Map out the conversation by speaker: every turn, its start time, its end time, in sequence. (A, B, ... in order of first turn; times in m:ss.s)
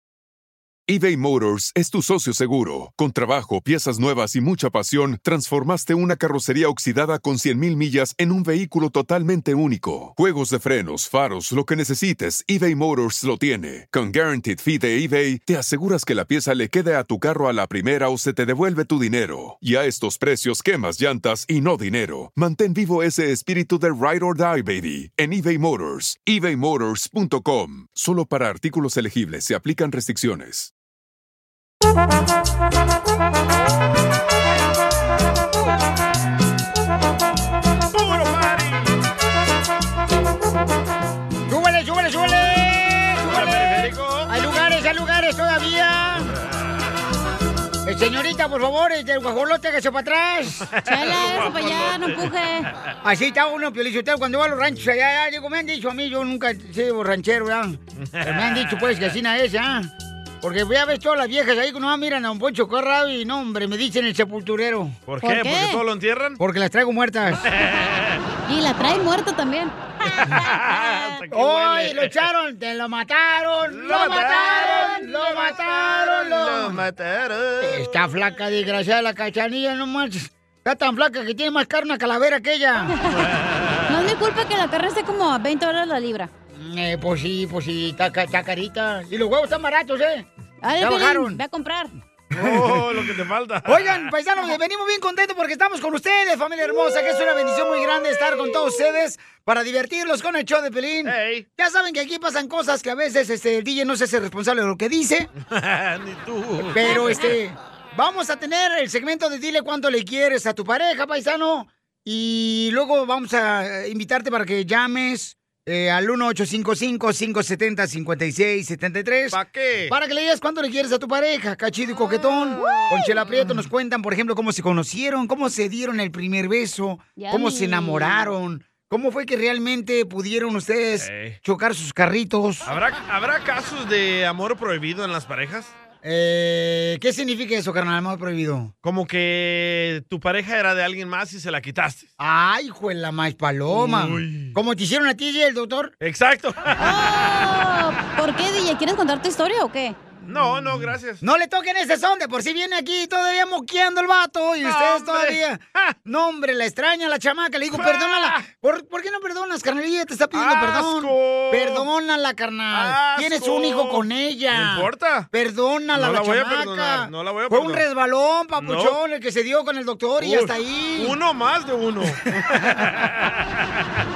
0:00.9-0:30.7 A
0:37.9-0:38.9 B
0:41.5-0:46.3 C
0:43.3-0:44.3 B
0:47.8-0:50.7 C
0:50.7-0:52.3 B
0:50.9-0:52.7 D
0:53.0-0:59.9 C
0:58.0-0:59.1 B
1:00.4-1:05.0 C
1:05.1-1:06.4 B
1:05.2-1:05.8 D
1:06.4-1:07.4 C
1:07.4-1:08.2 B
1:08.4-1:11.2 D
1:10.3-1:12.2 B
1:11.3-1:16.8 C
1:13.7-1:17.9 B
1:13.9-1:15.6 D
1:17.6-1:22.9 C
1:23.9-1:26.3 D
1:26.5-1:30.2 C
1:30.6-1:31.9 D
1:30.8-1:31.4 C
1:32.3-1:34.1 B
1:32.3-1:33.0 C
1:33.7-1:45.3 C
1:41.0-1:41.4 B
1:45.4-1:46.9 B
1:46.7-2:12.7 C
1:46.9-1:47.3 D
1:59.3-1:59.9 B
2:02.6-2:02.9 D
2:07.2-2:08.3 D
2:11.0-2:11.4 B
2:12.7-2:15.8 B
2:16.0-2:18.7 C
2:18.8-2:22.1 B
2:22.2-2:25.9 C
2:23.7-2:24.5 B
2:26.0-2:26.9 B
2:26.8-2:30.0 D
2:30.2-2:31.2 B
2:31.2-2:51.2 C
2:34.6-2:35.9 B
2:37.7-2:38.4 B
2:40.3-2:41.9 B
2:42.7-2:45.3 B
2:45.9-2:47.8 B
2:48.6-2:49.0 B
2:50.2-2:53.4 B
2:52.1-2:52.8 C